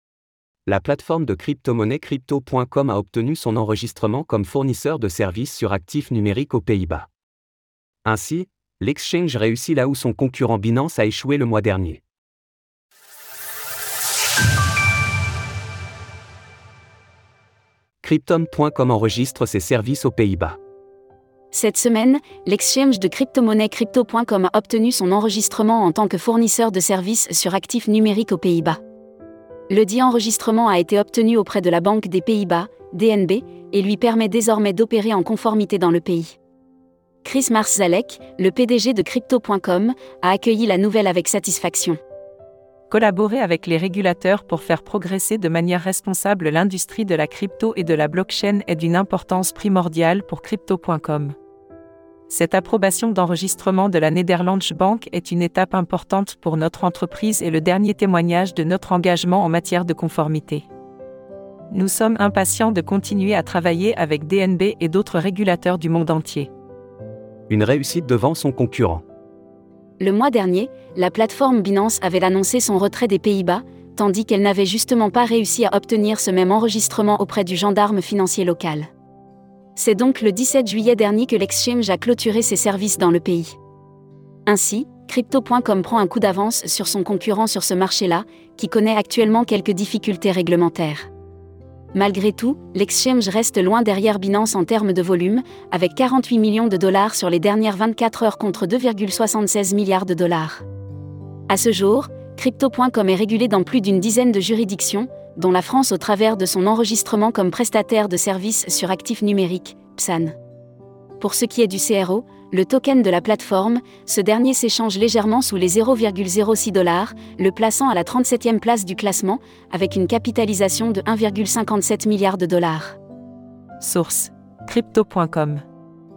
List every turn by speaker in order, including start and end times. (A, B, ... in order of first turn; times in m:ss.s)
0:00.7-0:07.1 A
0:08.0-0:12.0 A
0:18.0-0:20.6 A
0:21.5-0:28.8 B
0:29.7-0:36.4 B
0:37.2-0:42.0 B
0:42.9-0:51.4 C
0:52.3-1:00.7 C
1:01.7-1:06.5 C
1:07.5-1:09.0 A
1:10.0-1:18.9 B
1:19.8-1:23.6 B
1:24.5-1:31.1 B
1:31.9-1:40.6 B
1:41.5-1:50.4 B
1:51.2-2:03.0 B
2:03.8-2:05.6 C